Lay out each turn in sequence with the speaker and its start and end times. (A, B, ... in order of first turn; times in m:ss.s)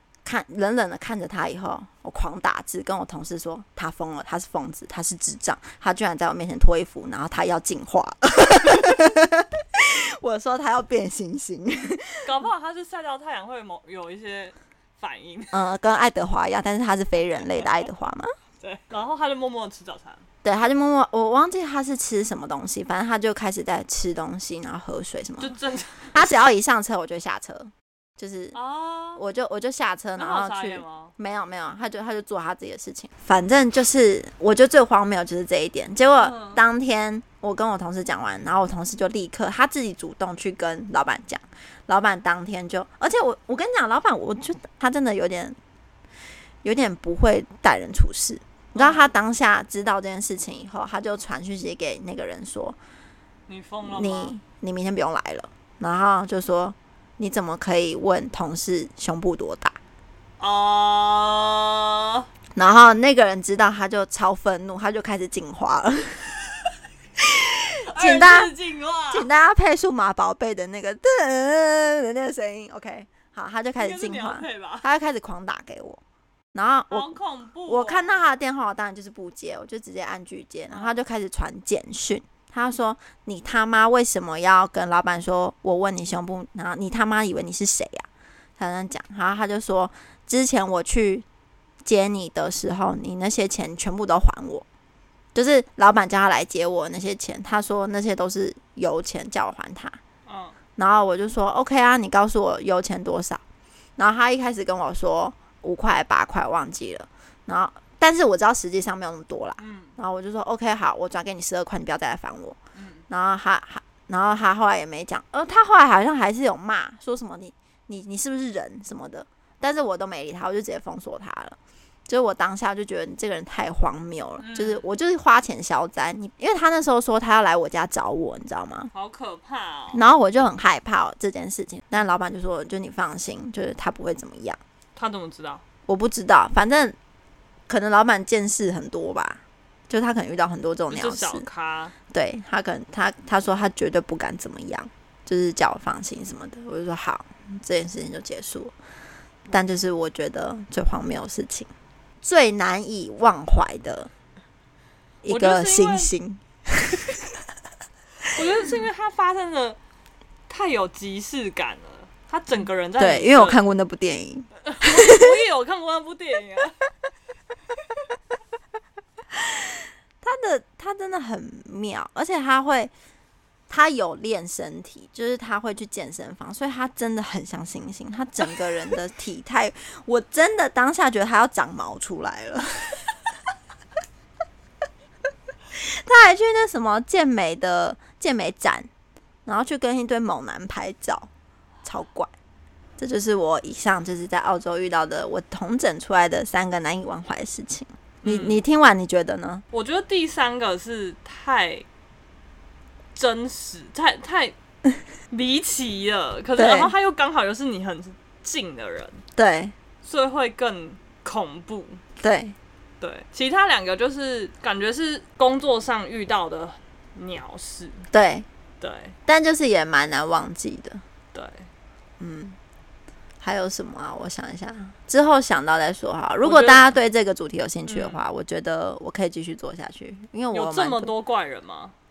0:00.2-0:12.2 A
0:12.2-0:15.5 B
0:15.5-0:18.3 A
0:18.6-0:20.2 B
0:20.4-0:25.5 A
0:25.4-0:26.3 B
0:26.1-0:28.6 A
0:28.5-0:29.2 B
0:29.2-0:45.6 A
0:30.2-0:31.1 B
0:36.2-0:36.6 B
0:46.6-0:52.8 A
0:48.8-0:49.1 B
0:53.5-0:54.3 B
0:53.8-0:59.8 A
1:00.4-1:02.2 B
1:02.6-1:06.3 A
1:07.4-1:08.5 A
1:07.9-1:09.3 B
1:09.1-1:16.0 A
1:13.8-1:14.8 B
1:16.5-1:17.1 A
1:16.9-1:18.2 B
1:17.6-1:28.1 A
1:20.7-1:21.0 B
1:28.6-1:31.2 A
1:31.8-1:34.6 A
1:35.3-1:40.0 A
1:40.2-1:40.6 B
1:40.8-1:43.4 A
1:44.0-1:52.6 A
1:49.6-1:49.9 B
1:52.7-1:53.0 B
1:53.1-2:01.6 A
2:02.1-2:08.9 A
2:04.4-2:04.8 B
2:08.9-2:10.0 B
2:09.9-2:14.6 A
2:15.0-2:15.6 B
2:15.9-2:17.0 A
2:17.7-2:21.5 A
2:20.9-2:21.9 B
2:22.1-2:28.7 A
2:29.5-2:31.7 A
2:32.2-2:34.1 A
2:35.2-2:37.3 A
2:35.2-2:36.1 B
2:38.3-2:39.8 B
2:40.5-2:43.6 B
2:43.0-2:45.3 A
2:44.6-2:46.8 B
2:49.3-2:52.9 A
2:53.7-3:03.1 A
3:05.8-3:08.9 A
3:09.4-3:11.3 A
3:11.8-3:12.3 A
3:13.0-3:19.6 A
3:18.2-3:18.6 B
3:19.7-3:21.8 B
3:23.1-3:24.5 B
3:25.3-3:29.2 B
3:26.6-3:26.9 A
3:29.4-3:29.7 A
3:30.0-3:32.0 B
3:32.2-3:32.5 A
3:33.0-3:38.1 B
3:38.1-3:38.4 A
3:38.8-3:39.2 B
3:39.2-3:41.0 A
3:41.3-3:41.7 B
3:42.2-3:42.6 A
3:43.4-3:51.1 A
3:46.4-3:46.8 B
3:47.8-3:48.2 B
3:50.5-3:51.9 B